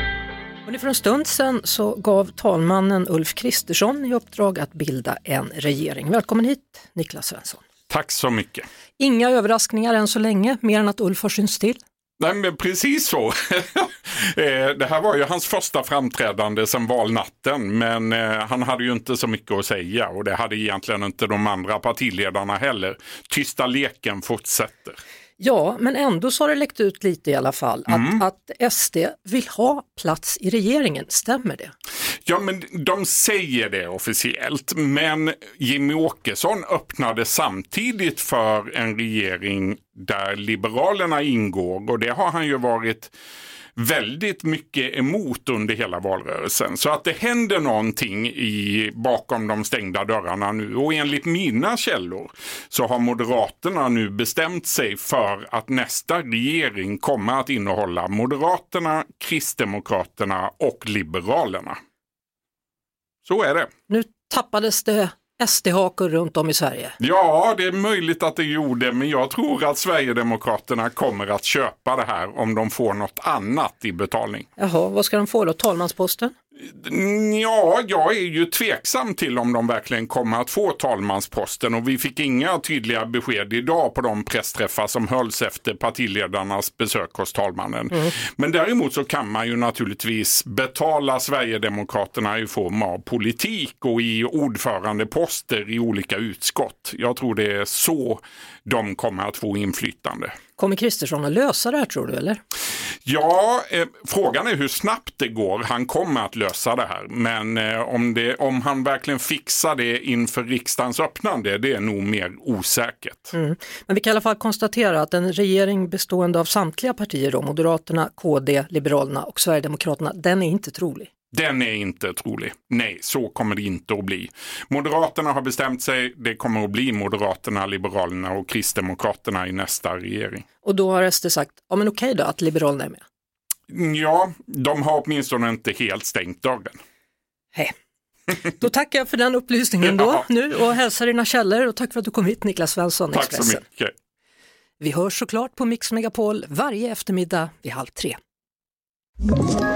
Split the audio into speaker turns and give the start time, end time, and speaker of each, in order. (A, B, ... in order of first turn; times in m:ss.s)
0:00.6-0:07.6 A
0:07.9-0:08.6 B
0:09.0-0:11.8 A
0:12.2-0:25.0 B
0:25.4-0:31.7 A
0:27.9-0:28.2 B
0:32.2-0:43.1 B
0:43.8-1:01.8 B
1:03.2-1:03.7 B
1:03.9-1:07.0 A
1:07.0-1:14.5 B
1:14.6-1:16.3 A
1:16.7-1:40.3 B
1:40.6-1:42.4 A
1:43.0-1:53.3 B
1:53.3-2:01.1 A
2:01.3-2:10.4 B
2:10.6-2:13.0 A
2:13.7-2:16.8 B
2:18.4-2:23.6 A
2:23.1-2:23.9 B
2:24.8-2:28.2 A